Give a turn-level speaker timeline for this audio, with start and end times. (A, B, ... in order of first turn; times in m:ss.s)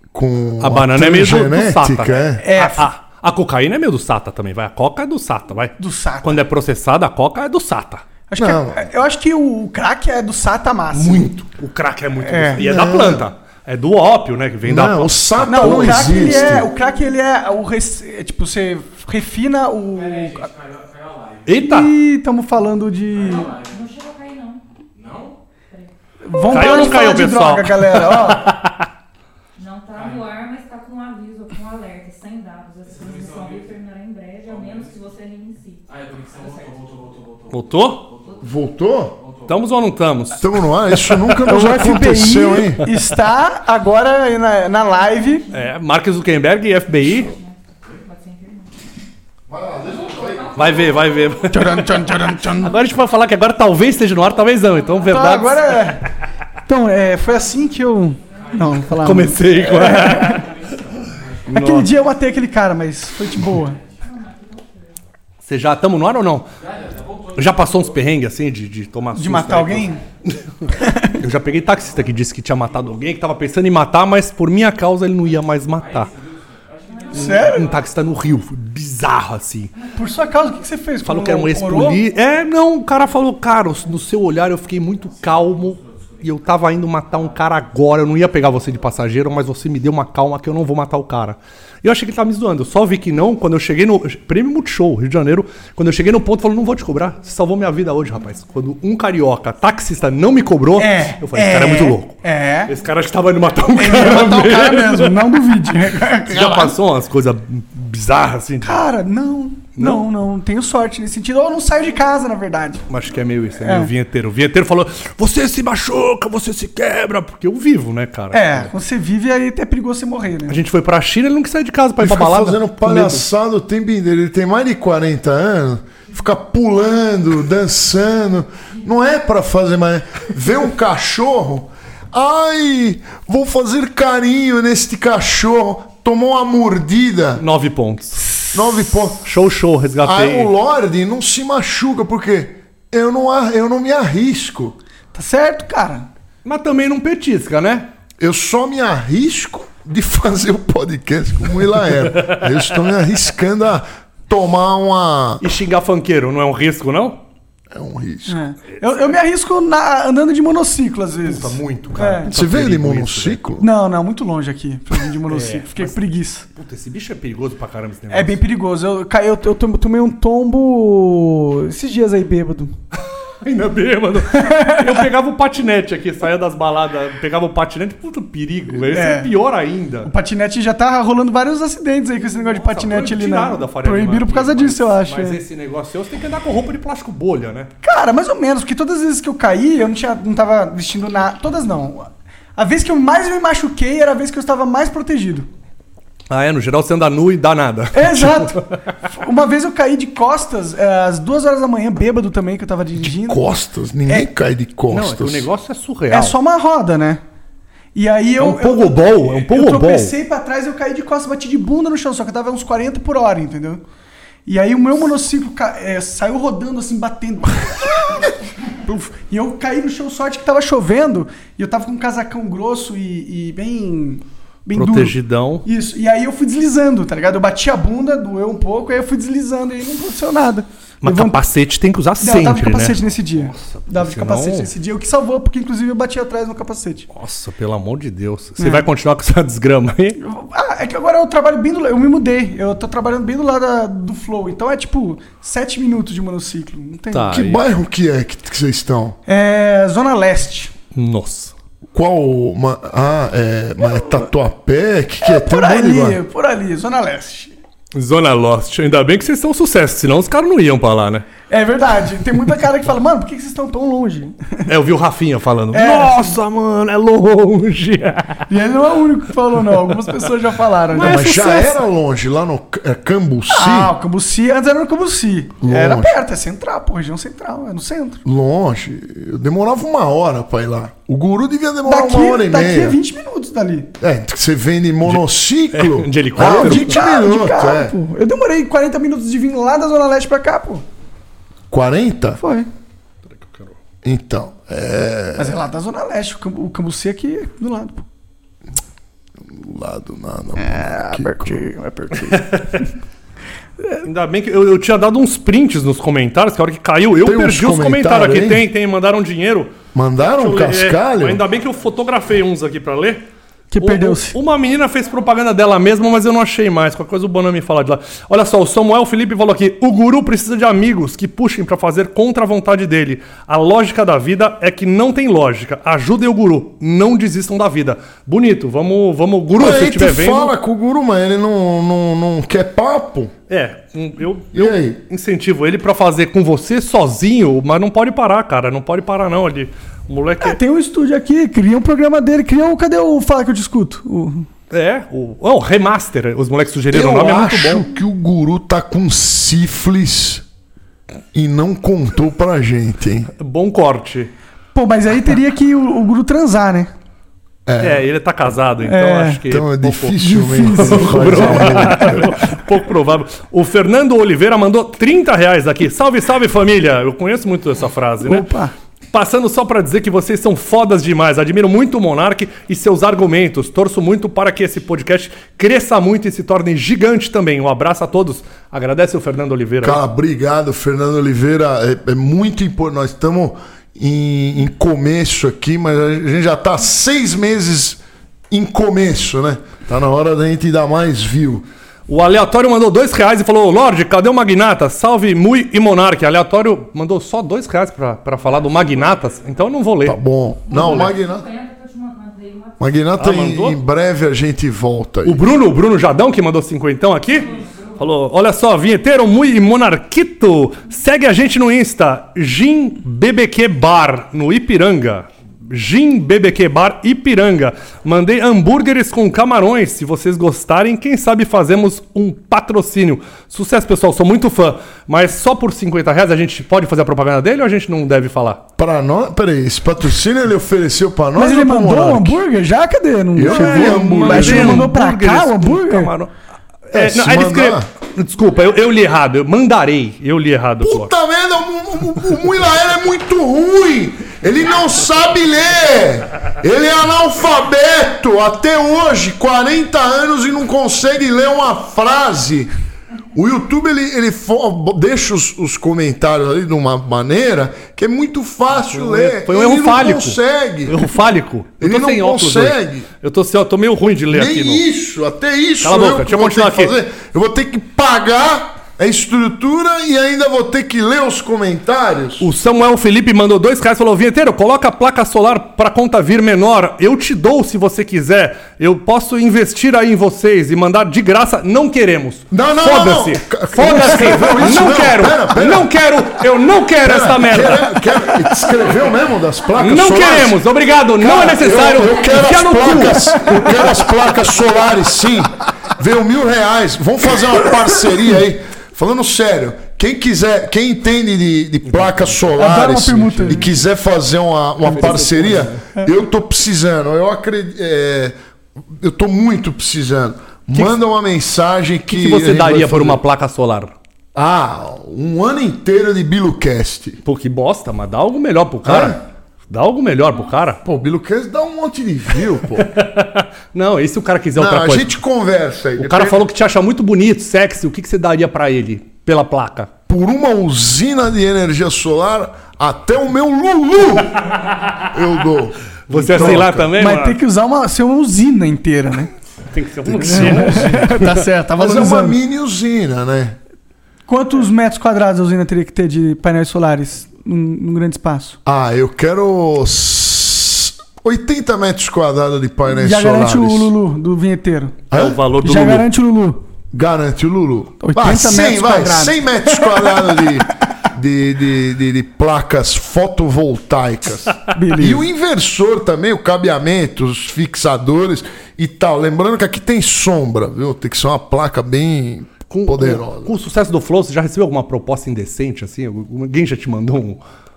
0:00.1-0:02.4 A
0:00.6-0:08.0 B
0:02.4-0:02.9 C
0:05.8-0:06.4 C
0:08.3-0:11.3 C
0:08.4-0:08.9 A
0:10.9-0:16.6 B
0:12.2-0:12.7 C
0:12.6-0:13.2 A
0:14.6-0:16.7 A
0:15.5-0:20.5 C
0:19.9-0:21.8 D
0:21.5-0:21.9 B
0:21.6-0:23.5 C
0:23.1-0:23.8 D
0:23.4-0:24.6 E
0:24.9-0:25.4 D
0:26.2-0:28.5 C
0:26.5-0:28.9 B
0:29.6-0:35.9 E
0:29.9-0:30.4 D
0:32.9-0:33.7 D
0:34.4-0:34.9 D
0:35.9-0:39.7 D
0:37.5-0:38.1 B
0:38.4-0:39.2 A
0:39.5-0:40.5 B
0:40.4-0:42.8 A
0:41.4-0:45.4 C
0:45.5-0:47.3 B
0:47.2-0:48.7 E
0:49.5-0:50.9 A
0:50.3-0:50.9 D
0:50.5-0:51.9 B
0:51.5-0:52.7 C
0:52.4-0:56.0 B
0:55.1-0:56.0 C
0:56.7-1:00.5 C
0:58.3-1:02.4 D
0:58.9-1:00.5 B
1:01.5-1:01.9 B
1:01.5-1:03.8 C
1:04.1-1:04.9 E
1:05.4-1:06.5 B
1:06.6-1:08.0 D
1:07.4-1:16.1 B
1:09.2-1:10.0 C
1:10.7-1:11.2 C
1:15.7-1:18.3 D
1:17.0-1:17.2 E
1:17.1-1:17.7 C
1:17.1-1:19.7 B
1:20.0-1:22.0 C
1:21.0-1:45.4 B
1:24.9-1:26.6 D
1:27.1-1:27.5 D
1:40.8-1:42.7 C
1:43.8-1:46.7 C
1:46.3-1:48.9 B
1:48.6-1:52.8 C
1:49.8-1:50.1 B
1:52.9-1:58.7 B
1:53.6-1:53.9 C
1:58.3-2:00.6 C
2:00.5-2:03.2 B
2:02.0-2:17.4 A
2:17.4-2:18.3 B
2:18.5-2:19.3 A
2:19.2-2:20.5 B
2:20.0-2:24.8 A
2:25.1-2:26.1 C
2:26.4-2:27.9 B
2:28.2-2:35.4 A
2:32.2-2:32.5 B
2:35.4-2:37.2 B
2:37.7-2:38.4 A
2:38.3-2:42.3 C
2:41.2-2:43.4 B
2:42.3-2:43.7 A
2:43.6-2:46.5 C
2:45.3-2:46.0 B
2:46.5-2:48.4 B
2:48.1-2:52.8 C
2:53.4-3:00.1 B
2:54.3-2:55.1 C
2:58.8-2:59.3 C
3:00.0-3:05.4 C
3:02.3-3:07.7 B
3:07.8-3:15.5 C
3:16.3-3:18.8 B
3:17.9-3:23.4 C
3:23.0-3:25.5 A
3:24.9-3:26.4 B
3:26.1-3:27.2 C
3:28.0-3:33.8 C
3:28.4-3:30.1 B
3:34.5-3:51.4 C
3:44.7-3:45.7 B
3:51.0-3:54.7 B
3:52.2-3:57.1 C
3:57.1-4:00.2 B
3:58.6-3:58.9 C
4:00.2-4:07.4 C
4:07.1-4:07.6 B
4:07.3-4:09.2 A
4:09.3-4:10.7 C
4:10.9-4:11.5 B
4:11.9-4:16.2 A
4:15.2-4:17.5 C
4:17.9-4:21.3 B
4:21.5-4:24.7 C
4:24.7-4:28.5 B
4:25.7-4:26.4 C
4:28.5-4:31.8 C
4:30.9-4:33.9 A
4:31.0-4:31.3 B
4:33.5-4:38.2 C
4:35.6-4:36.2 A
4:38.2-4:43.0 A
4:41.8-4:43.9 C
4:44.0-4:48.0 A
4:45.7-4:47.0 B
4:46.4-4:50.8 C
4:51.7-4:52.4 A
4:52.4-4:52.7 C
4:53.3-4:53.8 B
4:54.0-4:55.6 A
4:55.4-4:58.1 C
4:59.4-5:01.6 A
5:00.6-5:02.8 C
5:02.3-5:02.9 B
5:04.0-5:13.2 B
5:07.2-5:08.6 A
5:09.9-5:11.4 A
5:13.7-5:14.4 C
5:13.8-5:30.5 B
5:29.6-5:33.3 A
5:33.5-5:40.6 B
5:34.5-5:35.0 A
5:40.4-5:44.5 C
5:44.7-5:47.9 B
5:46.9-5:50.4 A
5:51.3-5:53.3 A
5:53.4-5:54.3 B
5:54.7-5:56.9 C
5:57.7-5:58.1 A
5:57.8-6:08.5 B
5:58.8-5:59.4 C
5:59.5-6:02.3 A
6:00.2-6:02.2 C
6:08.2-6:08.7 C
6:09.1-6:20.0 B
6:19.8-6:28.0 A
6:28.5-6:31.6 A
6:32.1-6:40.2 B
6:40.0-6:41.5 A
6:40.7-6:42.8 E
6:40.7-6:41.1 B
6:42.8-6:45.4 A
6:43.2-6:43.8 B
6:45.2-7:08.6 B
7:08.8-7:12.4 A
7:11.4-7:16.1 C
7:13.4-7:14.9 A
7:13.5-7:16.3 B
7:16.9-7:21.1 B
7:16.9-7:17.9 A
7:20.8-7:32.7 A
7:33.3-7:41.1 A
7:38.8-7:44.8 B
7:41.8-7:43.1 A
7:44.3-7:52.5 A
7:45.8-7:46.9 B
7:52.4-8:08.0 B
8:02.5-8:05.9 A
8:07.0-8:28.4 A
8:09.8-8:13.6 B
8:22.6-8:23.6 C
8:24.8-8:25.9 B
8:29.0-8:33.2 A
8:32.1-8:34.0 B
8:34.4-8:37.2 A
8:37.2-8:40.8 B
8:38.8-8:39.2 A
8:40.8-8:42.9 A
8:42.8-8:45.2 B
8:44.6-8:46.4 A
8:46.0-8:49.9 B
8:50.1-8:54.6 A
8:54.5-8:55.0 B
8:55.1-8:56.9 A
8:56.1-8:57.4 B
8:56.3-8:59.3 C
8:59.7-9:01.4 B
9:00.1-9:00.9 A
9:00.2-9:02.4 C
9:01.8-9:03.6 A
9:04.3-9:08.6 C
9:08.7-9:13.9 A
9:12.9-9:15.0 C
9:15.1-9:15.4 A
9:15.1-9:16.1 B
9:15.6-9:16.6 C
9:16.9-9:33.5 A
9:18.0-9:20.6 C
9:24.7-9:25.3 C
9:32.7-9:37.4 B